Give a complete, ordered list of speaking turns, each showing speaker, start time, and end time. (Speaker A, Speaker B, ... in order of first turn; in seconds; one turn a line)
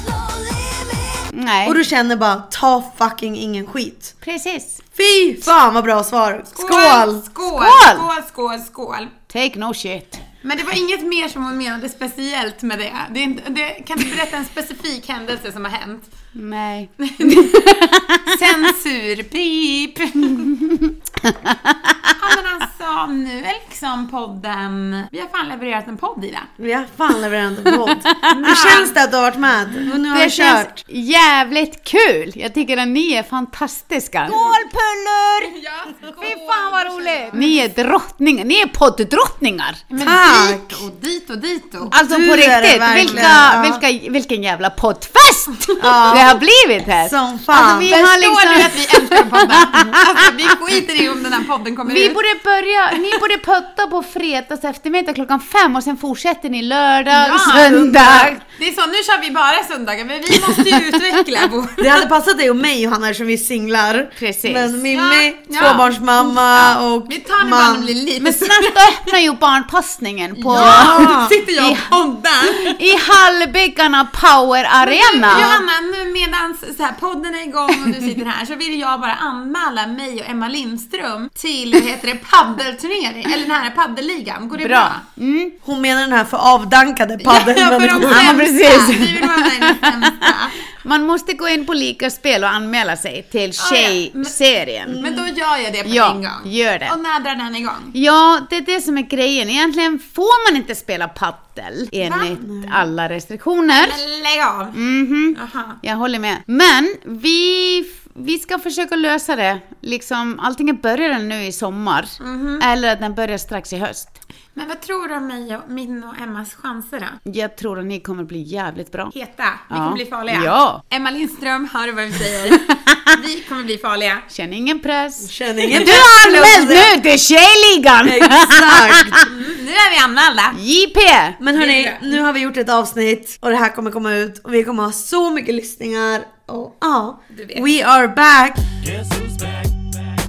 Speaker A: 1.3-1.8
Speaker B: 1.6-4.1
Speaker A: 4.2-4.8
Speaker B: 5.0-7.2
Speaker C: 6.5-9.1
Speaker A: 7.6-8.1
Speaker A: 9.3-10.2
Speaker C: 10.4-16.1
Speaker A: 16.4-18.6
Speaker C: 17.0-20.5
Speaker A: 20.4-21.9
Speaker C: 22.2-26.5
Speaker B: 26.6-30.8
Speaker A: 27.8-28.4
Speaker C: 28.3-28.9
Speaker A: 30.0-35.5
Speaker C: 34.3-34.5
Speaker C: 35.5-37.6
Speaker A: 36.2-39.8
Speaker C: 39.9-41.9
Speaker B: 40.0-40.8
Speaker A: 41.9-50.2
Speaker B: 41.9-43.8
Speaker C: 43.0-43.4
Speaker B: 45.8-46.4
Speaker B: 47.0-47.9
Speaker C: 47.9-52.2
Speaker A: 51.9-58.4
Speaker C: 52.9-53.2
Speaker C: 57.1-62.0
Speaker A: 60.5-60.8
Speaker B: 61.8-67.9
Speaker A: 64.2-64.8
Speaker C: 64.9-69.1
Speaker A: 65.6-65.8
Speaker A: 68.2-72.0
Speaker C: 70.3-72.8
Speaker B: 70.5-71.3
Speaker A: 72.6-75.6
Speaker C: 74.8-85.0
Speaker A: 84.6-85.5
Speaker B: 85.6-88.3
Speaker C: 87.2-90.6
Speaker A: 88.0-95.0
Speaker C: 93.6-97.9
Speaker B: 95.0-95.2
Speaker A: 95.8-96.9
Speaker A: 97.9-104.0
Speaker C: 102.0-102.4
Speaker C: 103.8-104.8
Speaker A: 104.7-114.2
Speaker C: 105.3-105.8
Speaker C: 112.2-112.6
Speaker C: 114.5-117.2
Speaker A: 117.2-119.1
Speaker C: 119.1-124.2
Speaker A: 119.7-120.8
Speaker A: 124.3-129.2
Speaker B: 125.2-126.9
Speaker B: 128.0-129.2
Speaker C: 129.2-130.6
Speaker A: 130.5-131.4
Speaker B: 131.4-138.6
Speaker C: 131.5-132.2
Speaker C: 137.3-137.7